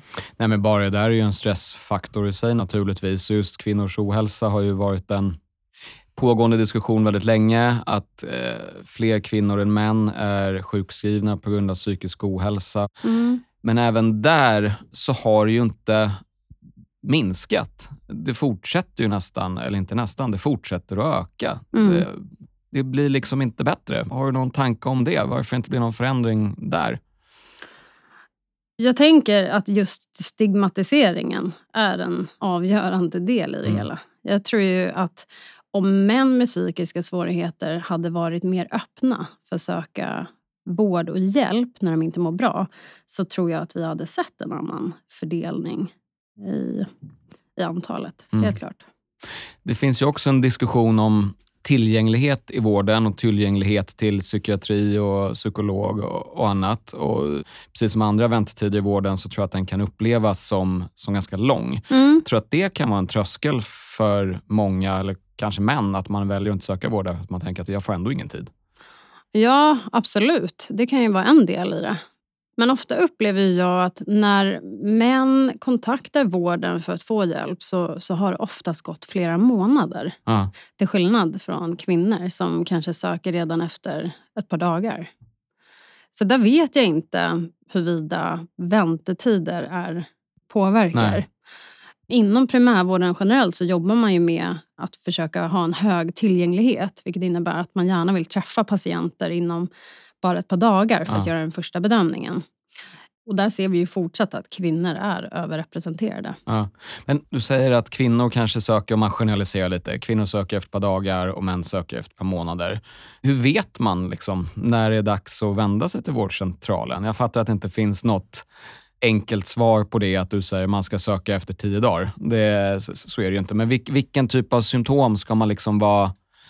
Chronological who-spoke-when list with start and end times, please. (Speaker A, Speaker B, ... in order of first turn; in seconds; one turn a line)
Speaker A: 0.4-5.4
Speaker A: 6.2-12.9
Speaker B: 13.0-13.4
Speaker A: 13.6-16.2
Speaker A: 17.0-27.0
Speaker B: 21.7-22.0
Speaker B: 28.8-46.9
Speaker B: 47.6-48.8
Speaker A: 49.6-68.5
Speaker B: 61.9-62.2
Speaker B: 69.3-72.0
Speaker B: 72.6-80.2
Speaker B: 80.8-85.1
Speaker B: 86.1-91.3
Speaker A: 90.9-91.2
Speaker B: 92.1-99.7
Speaker B: 100.2-102.4
Speaker B: 103.2-106.4
Speaker A: 106.5-118.5
Speaker A: 119.0-126.1